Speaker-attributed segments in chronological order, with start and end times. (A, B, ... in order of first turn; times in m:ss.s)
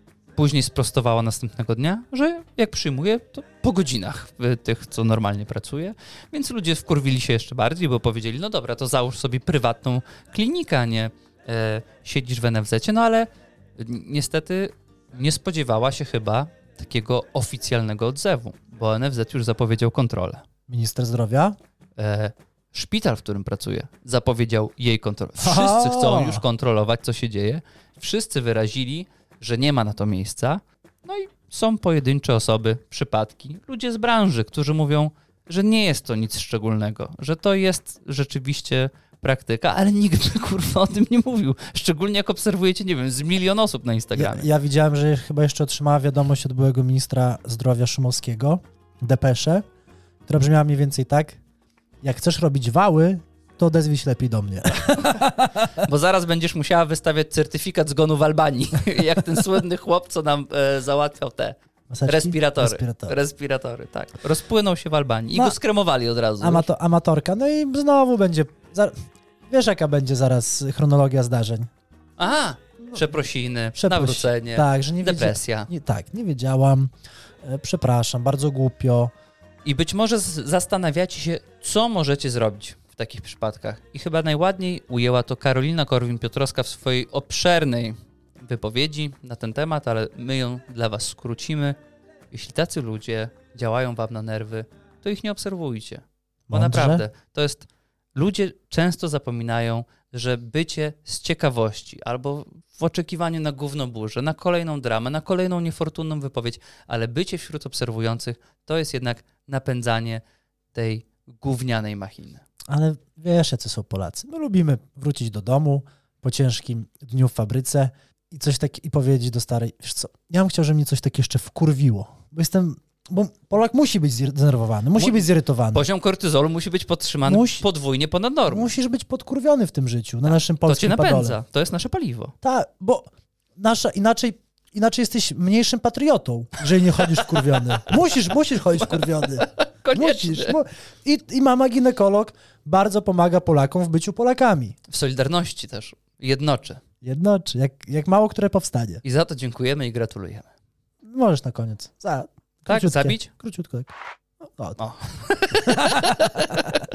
0:00.4-0:20.4 A
0:20.7-0:21.6 B
0:22.0-0:44.5 A
0:25.4-0:26.4 B
0:44.1-0:49.6 B
0:50.3-0:51.4 B
0:52.0-0:55.8 B
0:54.8-0:55.2 A
0:55.8-1:06.7 A
1:01.9-1:03.2 B
1:05.3-1:05.6 B
1:06.4-1:08.9 B
1:09.5-1:11.7 B
1:12.2-1:15.7 A
1:13.7-1:19.1 B
1:19.6-1:31.8 A
1:32.3-1:50.2 A
1:36.5-1:37.0 B
1:50.7-1:52.4 A
1:52.7-2:05.9 B
2:05.0-2:08.7 A
2:07.3-2:07.6 B
2:08.5-2:11.4 B
2:10.3-2:12.3 A
2:12.4-2:24.7 B
2:18.8-2:20.6 A
2:24.9-2:26.8 A
2:27.0-2:29.0 B
2:29.0-2:30.5 A
2:31.0-2:33.9 B
2:32.6-2:33.3 A
2:34.4-2:34.8 B
2:34.8-2:36.8 A
2:35.6-2:36.7 B